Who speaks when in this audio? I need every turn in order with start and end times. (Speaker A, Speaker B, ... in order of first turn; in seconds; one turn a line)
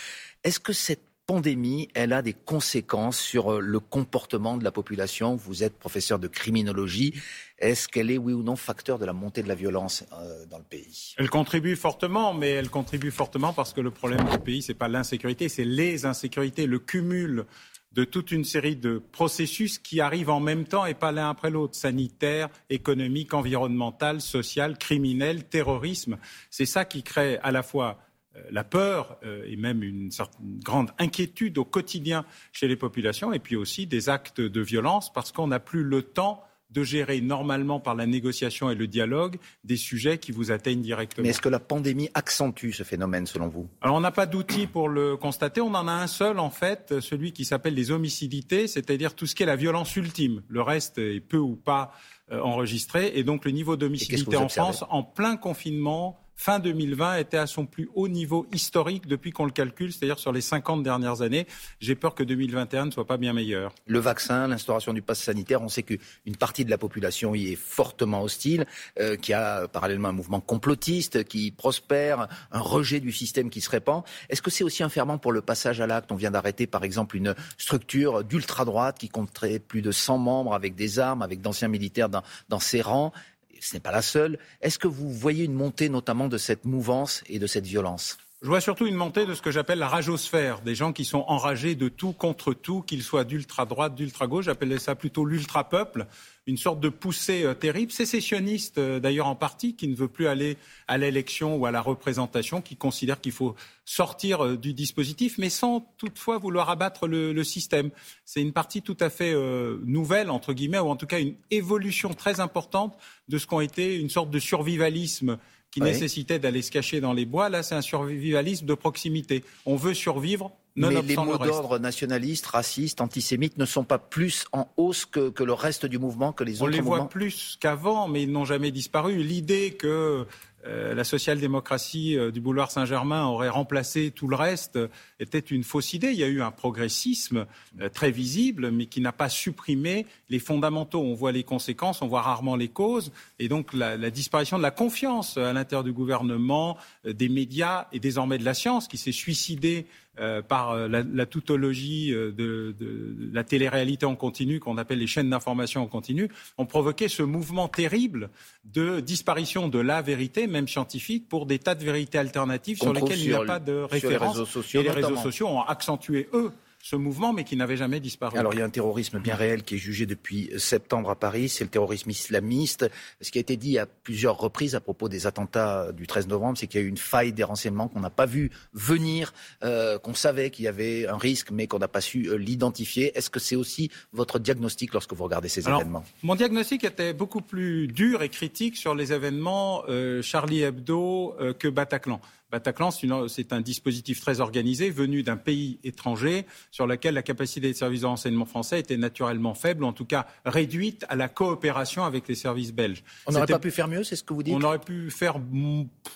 Speaker A: 0.4-11.1
Speaker B: 11.2-41.4
Speaker A: 41.2-43.7
Speaker B: 43.8-63.7
Speaker A: 54.0-54.8
Speaker A: 63.9-88.2
Speaker B: 88.4-121.6
Speaker A: 120.8-127.1
Speaker B: 126.6-168.6
Speaker A: 162.8-165.3
Speaker A: 168.3-186.0
Speaker B: 185.6-203.6
Speaker A: 203.3-204.6
Speaker B: 204.5-205.9